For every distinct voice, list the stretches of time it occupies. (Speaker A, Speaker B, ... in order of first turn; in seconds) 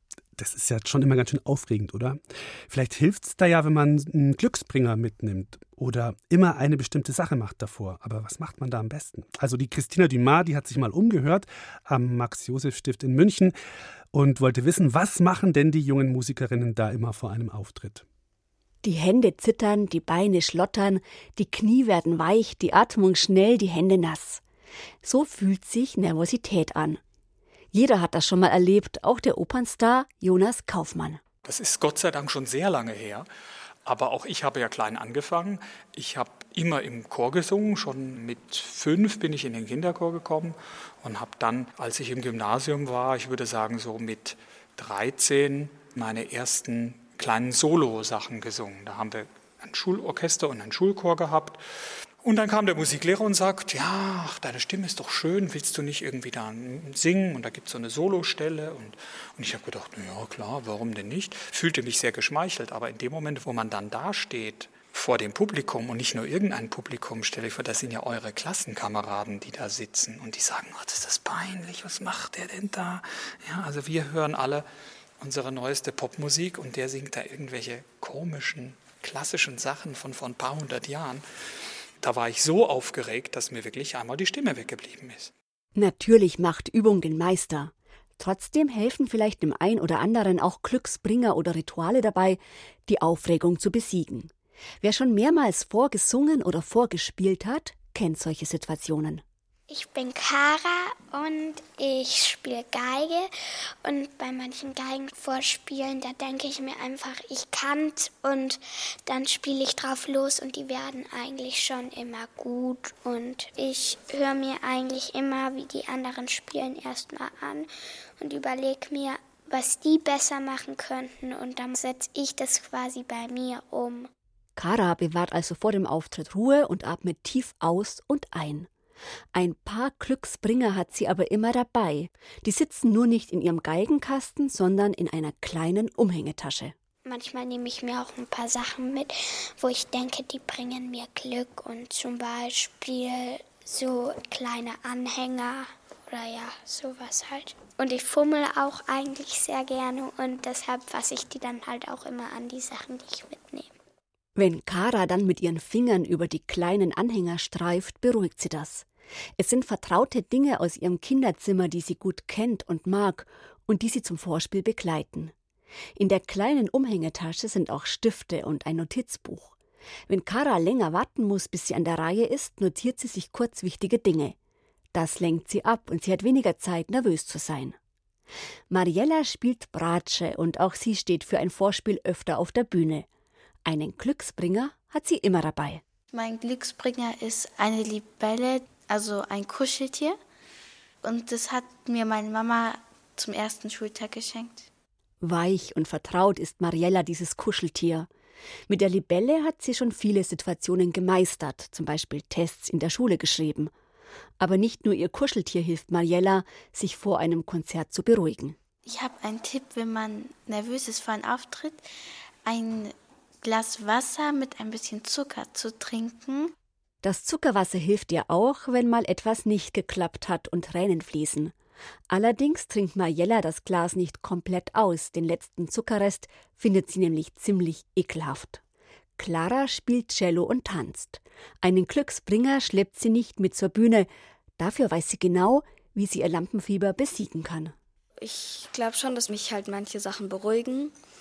Speaker A: 0.4-2.2, 2.7-13.5, 14.1-18.1
Speaker B: 18.8-24.4, 25.0-27.0, 27.7-31.2, 85.8-99.2, 124.6-128.7, 129.3-136.7, 154.4-158.9, 159.4-165.3, 166.0-169.6, 170.1-174.4, 174.9-177.8, 178.7-183.1, 183.7-185.8, 195.2-198.1, 198.7-203.7, 204.4-208.6, 217.0-221.5, 222.1-228.6, 229.2-237.8
Speaker C: 31.5-33.3, 33.9-51.6, 52.2-74.7, 75.2-81.2, 82.0-85.3
Speaker D: 99.7-103.3, 103.8-124.1, 137.1-153.8
Speaker E: 186.1-190.2, 191.0-194.7, 208.9-211.9, 212.4-216.5
Speaker F: 238.2-241.0